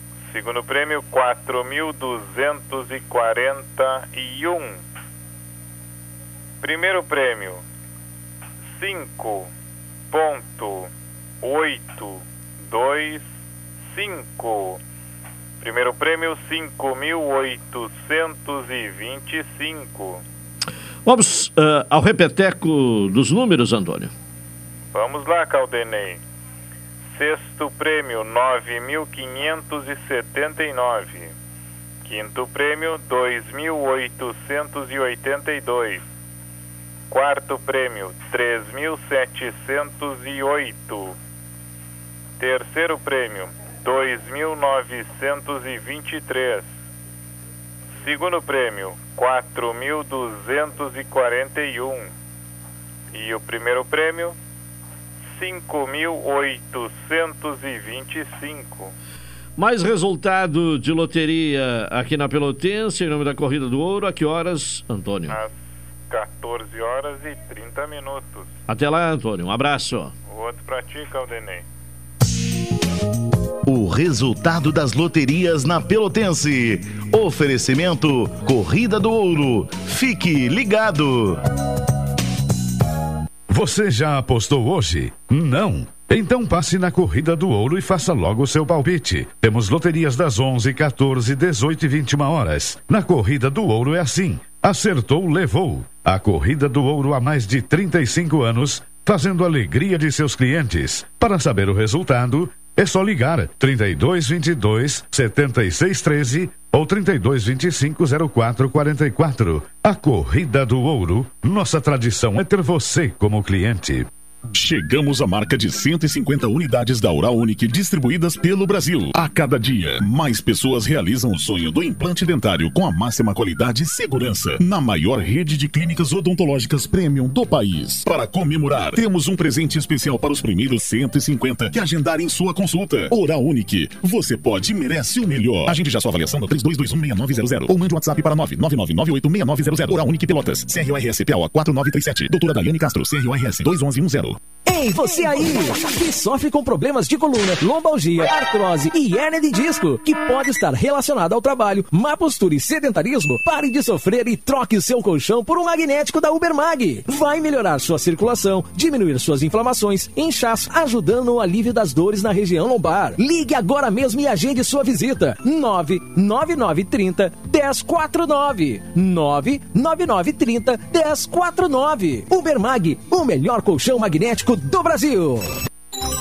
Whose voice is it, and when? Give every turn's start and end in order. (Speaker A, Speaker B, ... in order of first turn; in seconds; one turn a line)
Speaker A: 0.2-4.8
Speaker A: 6.6-7.6
Speaker A: 8.7-9.5
Speaker A: 10.1-10.9
Speaker A: 11.4-13.3
Speaker A: 13.8-14.8
Speaker A: 15.6-20.2
Speaker B: 21.1-24.1
Speaker A: 24.9-26.2
Speaker A: 27.1-31.3
Speaker A: 32.0-36.0
Speaker A: 37.1-41.1
Speaker A: 42.4-46.7
Speaker A: 48.0-52.1
Speaker A: 53.1-54.4
Speaker A: 55.3-58.9
Speaker B: 59.6-65.4
Speaker A: 65.3-68.5
Speaker B: 68.7-70.1
Speaker A: 70.3-71.6
Speaker C: 73.7-81.4
Speaker D: 83.5-114.1
Speaker E: 114.5-144.4
Speaker F: 144.7-175.6